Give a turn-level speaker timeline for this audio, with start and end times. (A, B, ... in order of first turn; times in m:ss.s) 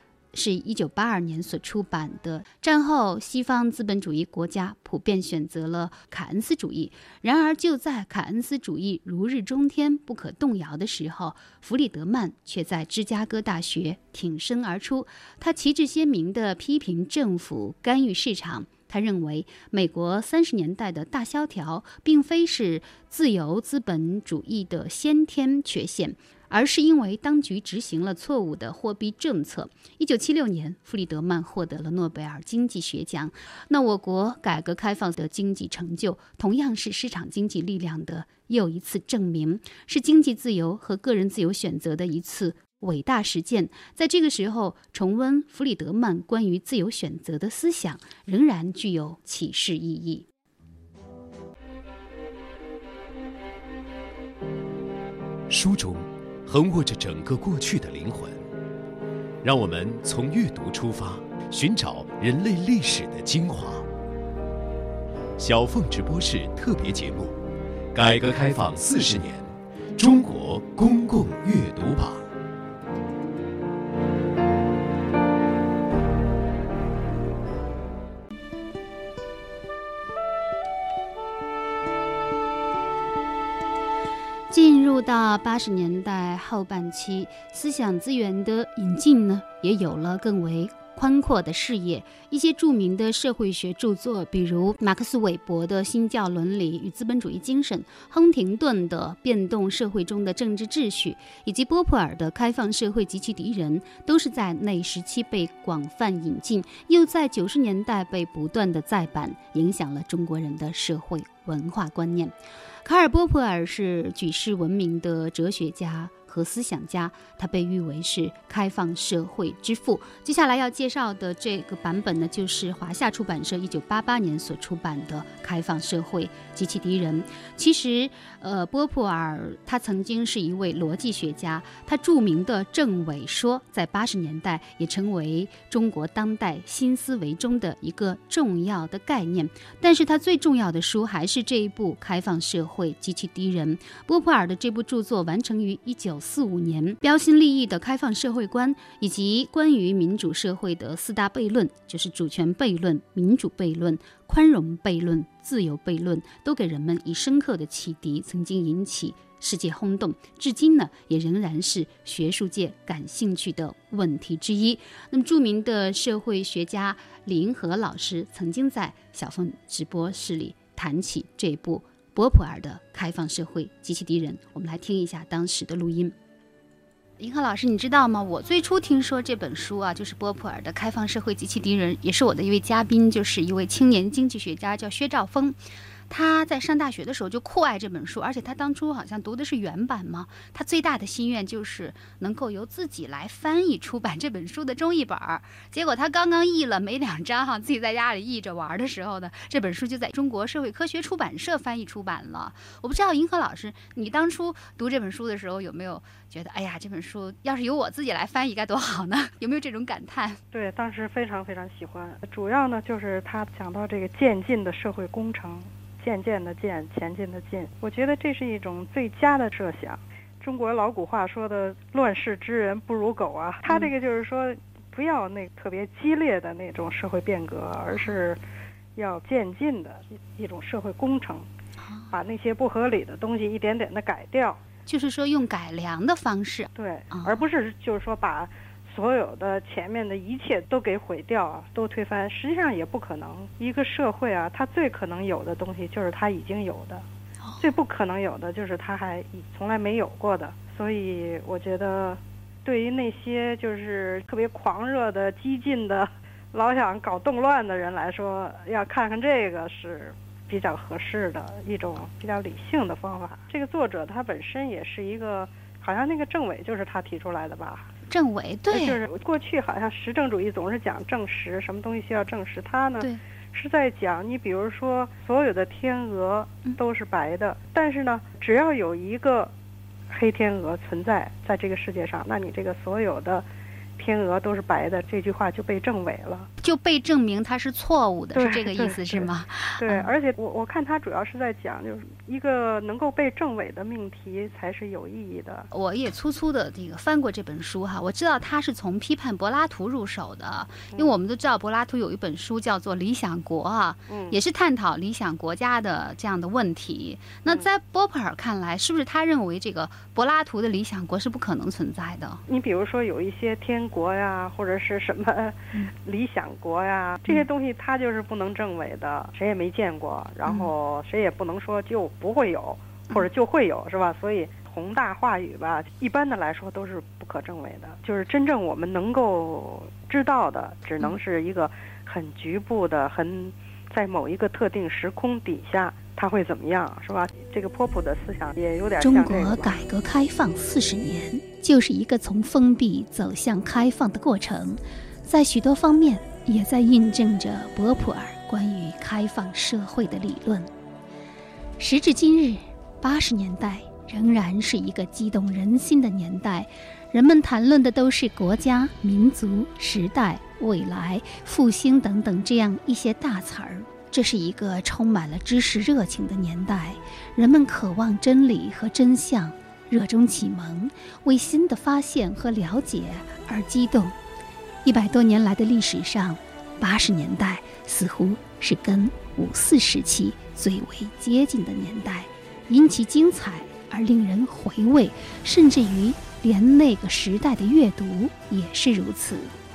0:00.3-0:50.3 A
0:55.5-0:58.4 B
0:59.4-1:03.9 B
1:05.4-1:07.4 B
1:07.9-1:12.3 B
1:24.5-2:56.2 A
2:57.2-3:05.6 A
3:06.1-3:30.4 A
3:30.5-3:48.4 C
3:47.9-3:48.2 A
3:49.0-3:51.5 C
3:51.8-3:52.1 A
3:52.1-3:54.6 C
3:54.9-3:57.4 A
3:56.8-4:07.0 C
4:07.4-4:07.7 A
4:07.6-4:27.9 C
4:28.1-4:29.0 A
4:28.7-4:39.5 C
4:40.1-4:43.4 C
4:44.0-4:46.5 C
4:46.6-4:50.1 A
4:48.3-4:55.7 C
4:55.7-5:12.4 A
5:04.1-5:04.4 C
5:12.5-5:39.8 C
5:20.4-5:20.7 A
5:39.0-5:50.7 A
5:51.8-6:14.2 A
6:14.8-6:29.6 A